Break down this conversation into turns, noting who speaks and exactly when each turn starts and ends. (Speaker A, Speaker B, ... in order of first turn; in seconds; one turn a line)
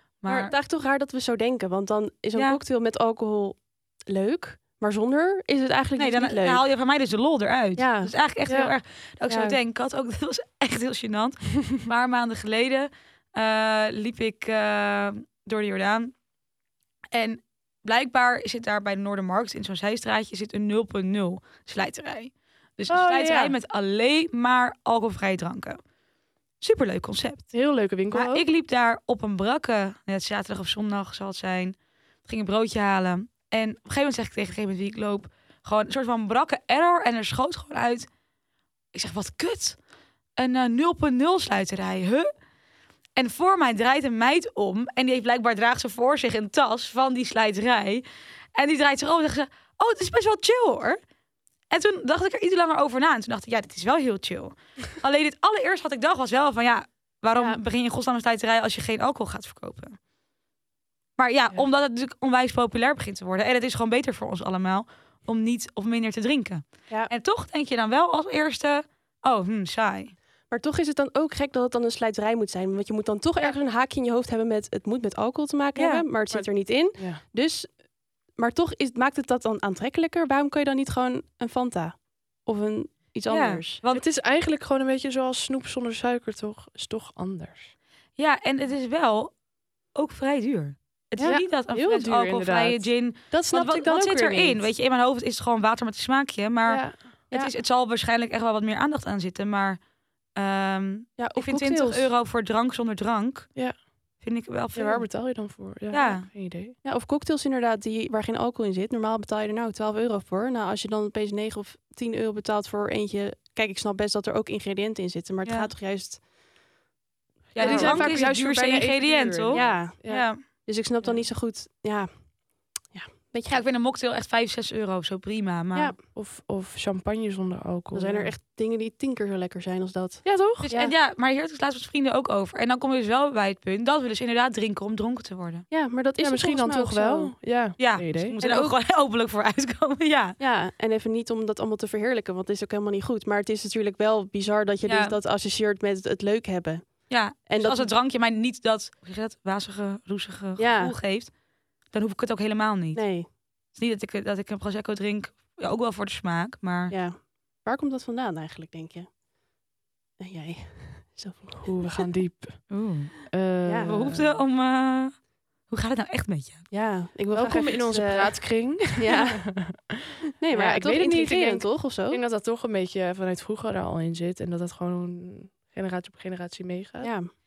Speaker A: 0.2-0.5
Speaker B: 0.2-6.6
Speaker A: 6.0-16.1
Speaker B: 7.8-8.1
Speaker C: 8.4-8.7
Speaker B: 9.3-9.6
Speaker A: 17.1-25.8
Speaker C: 22.9-23.6
Speaker A: 26.6-27.5
Speaker C: 27.5-28.4
Speaker A: 28.1-38.1
Speaker A: 38.9-39.8
Speaker A: 40.4-42.3
Speaker A: 43.1-51.0
Speaker A: 51.7-60.0
Speaker B: 57.3-57.6
Speaker A: 61.2-70.1
Speaker B: 70.5-83.8
Speaker A: 75.8-76.0
Speaker C: 76.9-77.2
Speaker A: 83.3-84.0
Speaker C: 83.9-87.7
Speaker A: 88.2-89.3
Speaker A: 89.9-99.8
Speaker C: 91.2-94.7
Speaker C: 96.7-97.0
Speaker A: 100.3-103.5
Speaker B: 101.2-102.1
Speaker A: 104.2-105.2
Speaker C: 104.7-106.7
Speaker A: 105.9-106.3
Speaker B: 106.8-116.2
Speaker A: 117.5-120.4
Speaker C: 117.5-120.3
Speaker B: 117.6-118.2
Speaker B: 119.5-123.6
Speaker A: 123.5-125.9
Speaker C: 126.1-128.3
Speaker B: 127.9-130.2
Speaker C: 130.2-130.9
Speaker A: 130.7-135.7
Speaker B: 135.7-137.3
Speaker C: 136.2-138.3
Speaker A: 137.8-140.4
Speaker B: 138.4-138.7
Speaker B: 140.4-147.9
Speaker A: 144.8-145.2
Speaker A: 147.1-151.3
Speaker B: 150.6-150.9
Speaker A: 151.9-156.9
Speaker B: 152.9-153.3
Speaker B: 156.9-159.1
Speaker B: 160.2-162.1
Speaker C: 161.6-162.8
Speaker A: 162.7-163.2
Speaker C: 163.3-164.4
Speaker B: 163.6-163.9
Speaker A: 163.8-166.7
Speaker B: 166.7-169.5
Speaker C: 167.3-177.1
Speaker B: 170.4-172.2
Speaker B: 177.0-177.3